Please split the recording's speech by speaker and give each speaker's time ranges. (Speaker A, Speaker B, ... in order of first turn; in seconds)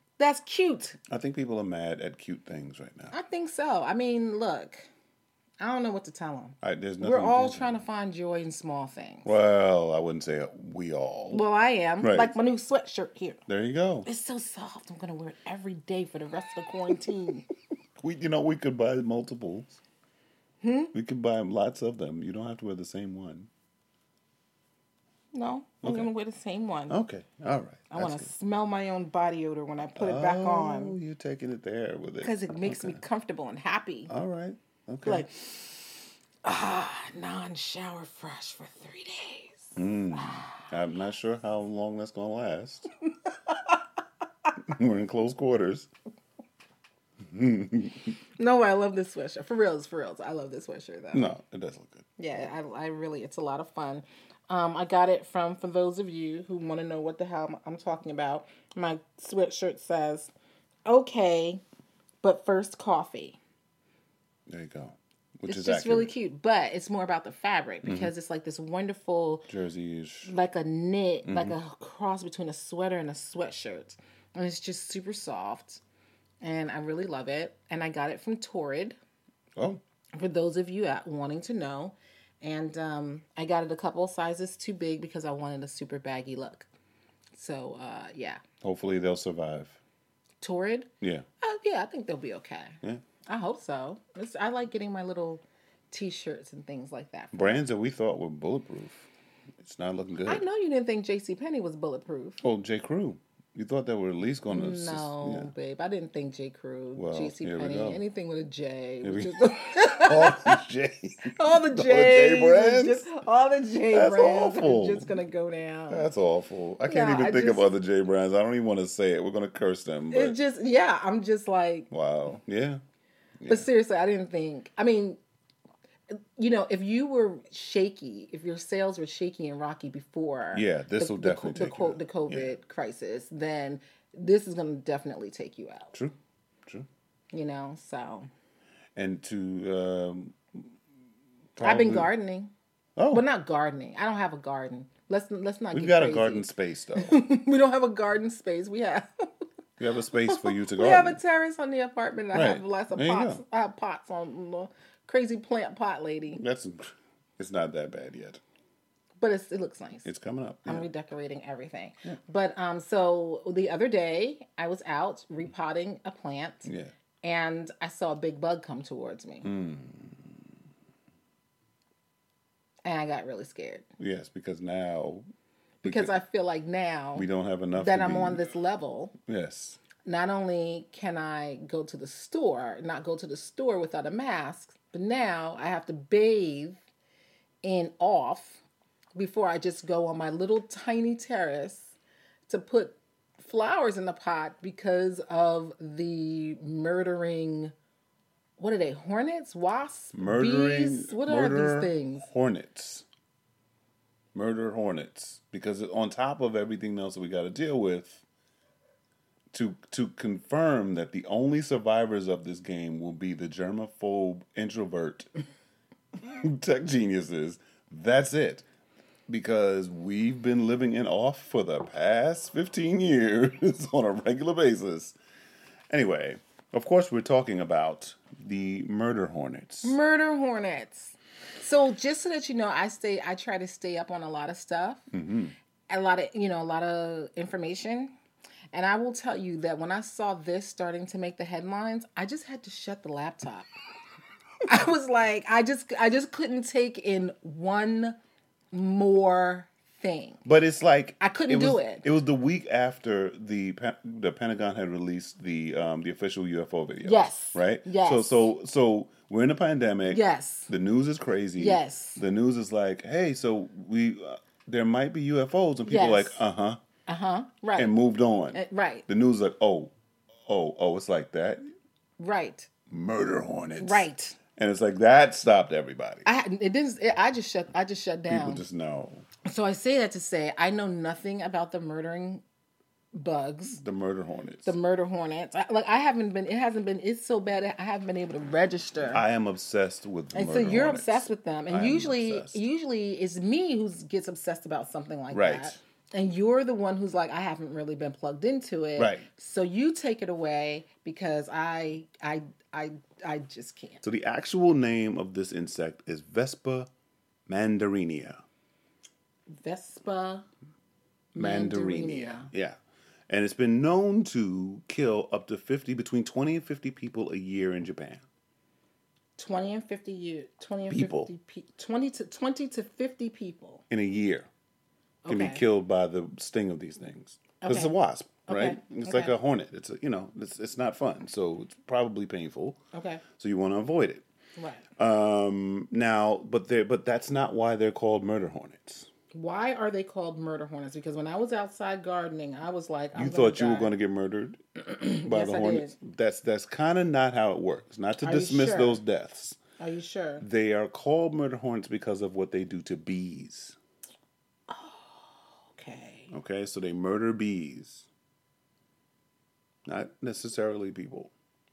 Speaker A: 0.2-1.0, 3.1-4.9, 5.6-9.3, 11.3-13.4, 14.1-17.4, 20.6-20.9, 25.3-27.0, 27.9-31.0, 32.2-34.1, 35.0-35.7, 36.4-40.5, 43.5-43.8, 48.4-51.3, 52.2-60.3, 60.9-61.6, 62.2-63.4, 65.5-69.5, 70.2-75.8, 76.4-79.0, 80.1-86.7, 87.3-88.4, 90.4-97.6, 100.2-102.4, 104.5-110.6, 111.2-116.1, 116.9-117.7, 120.1-121.9, 123.5-125.2, 126.1-135.9, 137.3-138.3, 141.6-142.5, 143.1-149.3, 150.3-156.4, 159.2-160.1, 160.7-166.7, 167.2-169.5, 172.8-173.9, 175.8-179.1, 180.0-186.8, 187.6-188.6, 189.1-191.9, 192.5-197.7, 198.6-202.3, 229.8-235.0, 235.9-238.1, 238.7-243.7, 244.7-248.2, 248.7-250.4, 251.2-252.0, 257.0-258.5, 260.1-260.7, 261.6-262.2, 265.9-266.4, 267.1-267.9, 268.5-269.1, 272.2-272.7, 273.8-274.4, 276.2-278.6, 279.4-282.4, 283.1-283.8, 284.6-289.2, 290.3-304.0, 309.5-310.5, 311.4-312.5, 319.4-323.8, 325.2-325.6, 327.6-327.9, 328.5-329.3, 332.9-333.2, 334.6-334.8, 339.3-343.9, 344.8-345.9, 348.2-349.0, 349.8-350.4, 354.7-356.3
Speaker B: 1.1-3.1, 6.6-7.8, 9.2-11.4, 12.0-12.3, 13.5-14.1, 18.0-19.8, 20.9-23.5, 25.8-26.1, 26.9-28.3, 29.9-33.0, 34.1-35.3, 39.8-42.9, 44.6-45.9, 47.3-48.2, 51.1-52.2, 64.5-66.1, 67.8-68.1, 69.5-70.3, 71.2-71.6, 88.6-89.8, 91.0-91.2, 97.3-99.1, 99.6-100.4, 102.4-105.5, 106.9-108.0, 109.0-113.1, 113.9-115.1, 115.9-120.4, 121.9-122.8, 123.4-123.7, 130.5-132.5, 139.0-140.6, 141.6-142.1, 143.0-143.2, 145.7-147.2, 149.8-151.2, 152.3-153.4, 156.3-158.4, 160.0-160.9, 166.6-166.9, 169.4-170.4, 174.0-175.2, 175.8-176.2, 177.1-178.4, 179.2-179.8, 200.1-203.0, 204.3-208.2, 209.5-215.3, 216.2-218.7, 219.3-225.2, 225.9-230.0, 235.1-235.5, 250.4-266.8, 267.8-269.9, 270.5-271.6, 272.9-276.3, 278.3-279.2, 283.8-284.7, 289.1-292.6, 295.3-295.8, 299.0-299.3, 304.0-306.9, 307.5-308.4, 311.4-312.8, 313.3-318.2, 320.9-321.3, 323.9-324.5, 325.3-332.8, 333.4-334.2, 335.0-339.1, 343.1-344.6, 345.2-349.6, 350.4-353.8, 356.3-358.1, 359.9-361.3